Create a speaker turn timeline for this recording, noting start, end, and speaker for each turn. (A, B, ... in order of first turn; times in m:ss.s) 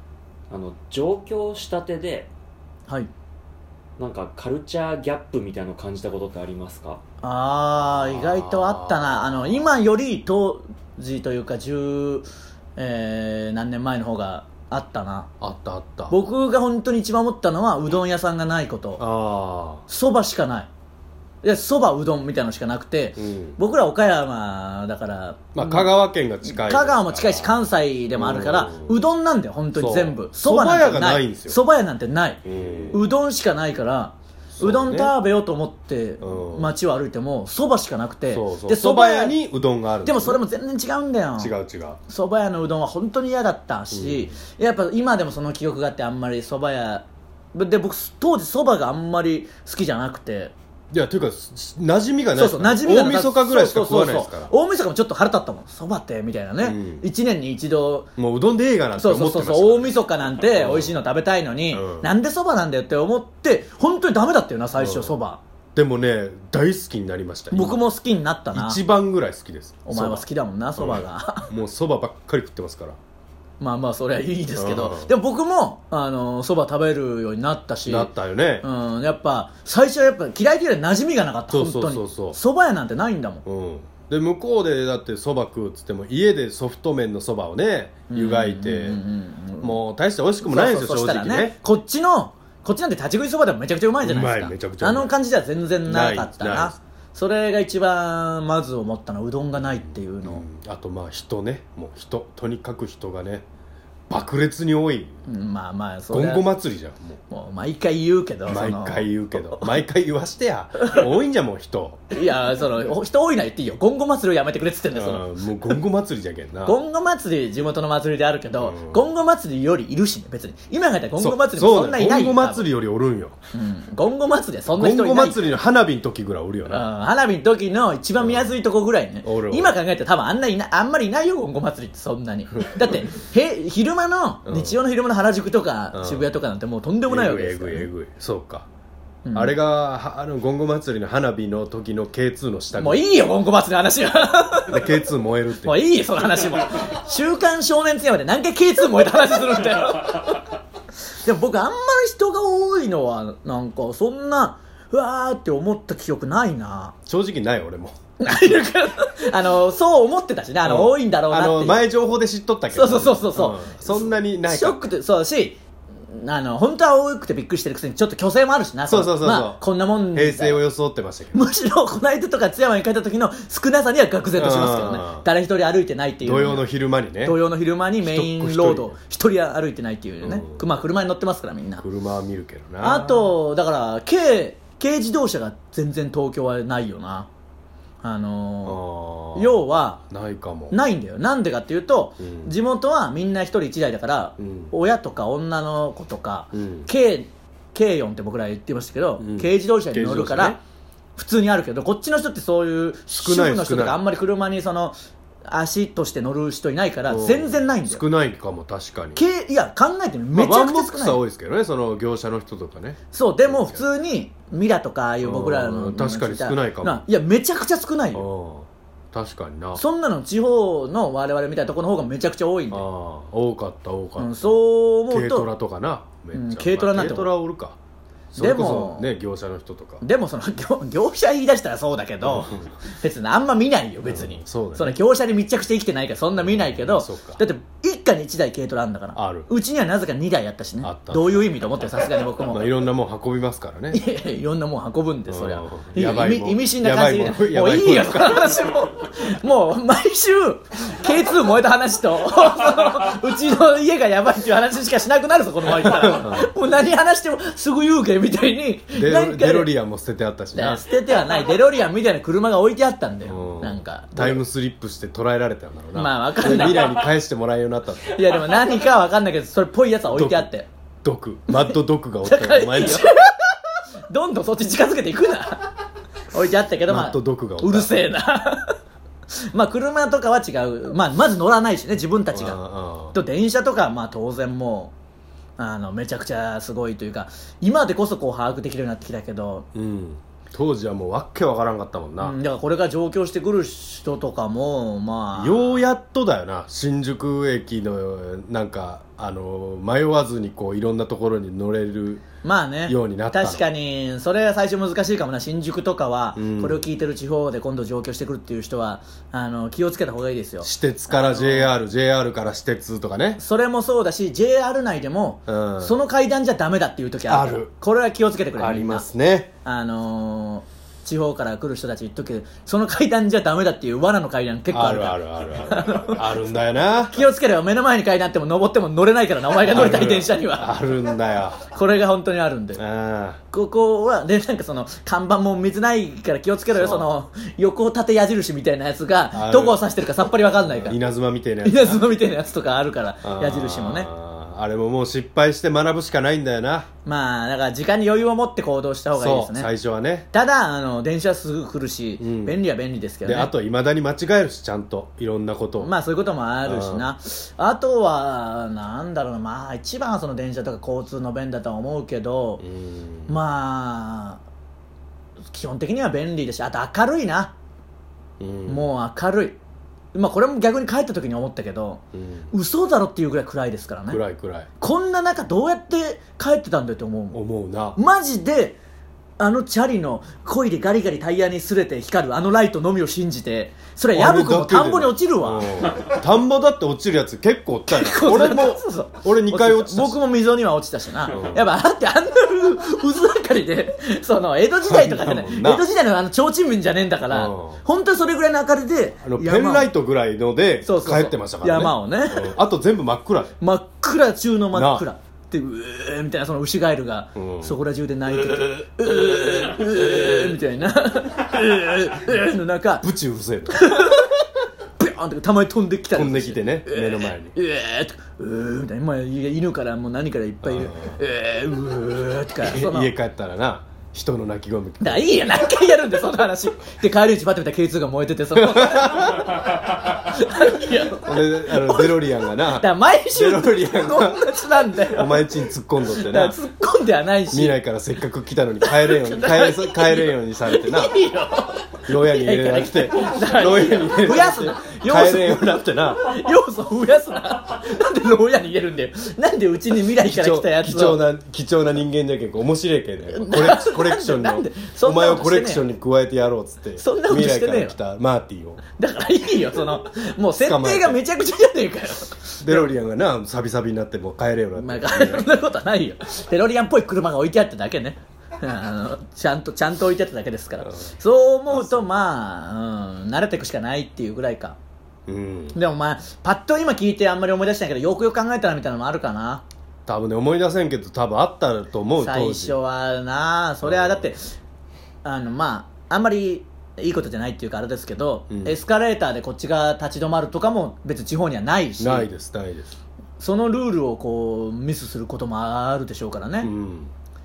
0:00.5-0:02.3 A
0:04.0-0:07.0 A
0:07.2-0:15.3 B
0:07.8-0:09.5 C
0:15.4-0:16.2 C
0:16.1-0:19.0 B
0:19.0-0:19.8 C
0:19.9-0:20.7 B
0:21.4-0:25.9 B
0:23.2-0:23.6 C
0:25.6-0:29.0 C
0:26.5-0:39.4 B
0:29.8-0:31.6 C
0:32.4-0:33.0 C
0:34.5-0:35.2 C
0:36.2-0:36.7 C
0:38.3-0:40.4 C
0:40.0-0:41.6 B
0:41.4-0:42.0 C
0:42.1-0:50.5 B
0:43.9-0:44.3 C
0:50.9-0:54.5 C
0:52.4-0:58.1 B
0:56.6-0:57.1 C
0:58.2-1:01.0 C
0:59.0-1:05.4 B
1:01.7-1:02.1 C
1:04.8-1:05.2 C
1:05.8-1:07.8 C
1:07.5-1:08.8 B
1:08.5-1:13.0 C
1:09.9-1:11.5 B
1:13.6-1:23.4 B
1:14.6-1:15.1 C
1:17.9-1:18.7 C
1:21.5-1:22.4 C
1:23.4-1:29.0 C
1:28.1-1:29.8 B
1:29.6-1:31.6 C
1:30.4-1:40.4 B
1:34.0-1:35.1 C
1:35.9-1:36.8 C
1:39.6-1:43.5 C
1:44.1-1:45.2 C
1:45.3-1:46.5 B
1:46.1-1:47.2 C
1:47.3-1:49.8 B
1:48.5-1:52.0 C
1:50.8-1:51.1 B
1:52.1-1:55.8 B
1:54.9-1:56.8 C
1:56.7-2:02.7 B
1:58.6-1:59.0 C
2:01.2-2:03.4 C
2:03.5-2:05.4 B
2:04.7-2:06.9 C
2:06.7-2:17.9 B
2:08.2-2:08.5 C
2:09.2-2:09.8 C
2:12.6-2:13.0 C
2:14.5-2:14.8 C
2:15.9-2:16.3 C
2:17.1-2:18.7 C
2:19.2-2:19.6 B
2:19.3-2:23.1 C
2:22.8-2:24.9 B
2:24.7-2:25.8 C
2:25.6-2:30.5 B
2:31.2-2:37.0 B
2:37.1-2:38.0 C
2:38.2-2:41.8 B
2:40.6-2:44.8 C
2:42.7-2:50.6 B
2:48.9-2:51.4 C
2:51.3-2:56.7 B
2:54.4-2:55.3 C
2:56.2-2:57.4 C
2:57.2-3:01.8 B
2:58.0-2:58.9 C
3:00.2-3:00.6 C
3:01.8-3:03.4 C
3:02.8-3:07.3 B
3:08.0-3:08.8 B
3:08.6-3:10.8 C
3:09.4-3:10.0 B
3:10.7-3:20.6 B
3:12.2-3:12.5 C
3:14.4-3:14.7 C
3:16.5-3:16.9 C
3:19.2-3:20.6 C
3:21.2-3:25.0 B
3:23.2-3:24.0 C
3:25.5-3:28.0 B
3:27.1-3:29.2 C
3:29.2-3:31.2 B
3:30.3-3:33.9 C
3:33.1-3:38.3 B
3:35.2-3:37.0 C
3:38.1-3:39.8 C
3:39.8-3:42.8 B
3:42.7-3:44.5 C
3:44.2-3:45.5 B
3:45.1-3:47.8 C
3:46.3-3:47.3 B
3:48.3-3:50.0 C
3:48.4-3:49.1 B
3:50.0-4:02.7 B
3:52.2-3:52.7 C
3:54.0-3:55.0 C
3:56.4-3:57.4 C
3:59.2-3:59.5 C
4:00.8-4:01.5 C
4:02.5-4:04.0 C
4:03.9-4:19.7 B
4:05.3-4:08.6 C
4:15.7-4:16.5 C
4:19.0-4:20.8 C
4:20.6-4:24.4 B
4:23.3-4:28.2 C
4:25.9-4:27.1 B
4:28.1-4:30.7 B
4:30.1-4:30.5 C
4:31.0-4:33.1 C
4:31.5-4:35.7 B
4:36.3-4:38.8 B
4:36.9-4:38.0 C
4:39.4-4:42.6 B
4:42.3-4:43.2 C
4:43.1-4:44.9 B
4:45.6-4:49.7 B
4:49.7-4:52.4 C
4:52.2-4:55.8 B
4:55.4-5:02.2 C
5:02.4-5:11.7 B
5:02.9-5:03.6 C
5:06.4-5:06.8 C
5:10.6-5:13.4 C
5:13.4-5:19.1 B
5:15.5-5:16.0 C
5:17.3-5:17.7 C
5:18.6-5:19.5 C
5:19.6-5:26.3 B
5:24.7-5:27.2 C
5:27.1-5:30.8 B
5:29.7-5:31.6 C
5:31.7-5:32.8 B
5:32.8-5:33.4 C
5:33.5-5:41.0 B
5:36.7-5:37.1 C
5:39.3-5:39.8 C
5:40.6-5:42.1 C
5:41.6-5:44.1 B
5:43.2-5:46.9 C
5:47.0-5:49.7 B
5:49.2-5:50.3 C
5:50.3-5:53.5 B
5:52.2-5:52.6 C
5:53.2-5:55.9 C
5:55.8-6:02.6 B
5:56.7-5:57.1 C
6:02.6-6:03.4 C
6:03.3-6:04.4 B
6:05.5-6:07.5 B
6:08.4-6:08.9 C
6:08.7-6:09.6 B
6:10.1-6:14.2 B
6:12.1-6:12.5 C
6:14.1-6:14.7 C
6:14.8-6:17.4 B
6:17.3-6:18.0 C
6:18.0-6:18.8 B
6:19.4-6:25.7 B
6:24.1-6:30.2 C
6:27.9-6:39.9 B
6:31.3-6:31.6 C
6:34.8-6:35.9 C
6:37.3-6:37.8 C
6:39.2-6:43.5 C
6:40.8-6:42.6 B
6:43.6-6:53.1 B
6:44.7-6:45.1 C
6:47.4-6:47.8 C
6:53.0-6:54.1 C
6:53.7-7:03.1 B
6:56.1-6:57.6 C
7:00.6-7:01.2 C
7:02.6-7:05.6 C
7:05.0-7:15.5 B
7:08.6-7:09.6 C
7:11.1-7:16.6 C
7:16.1-7:17.8 B
7:17.5-7:21.2 C
7:18.8-7:31.2 B
7:22.1-7:26.4 C
7:30.2-7:38.8 C
7:33.3-7:35.8 B
7:37.0-7:38.0 B
7:39.0-7:42.9 B
7:40.6-7:41.2 C
7:42.6-7:45.5 C
7:44.8-7:54.8 B
7:50.8-7:51.1 C
7:51.7-7:52.0 C
7:55.3-7:55.8 C
7:55.8-7:59.6 B
8:00.1-8:02.8 C
8:02.2-8:04.6 B
8:03.8-8:04.3 C
8:05.2-8:12.3 B
8:08.5-8:08.8 C
8:12.0-8:13.0 C
8:13.4-8:16.7 B
8:16.6-8:17.1 C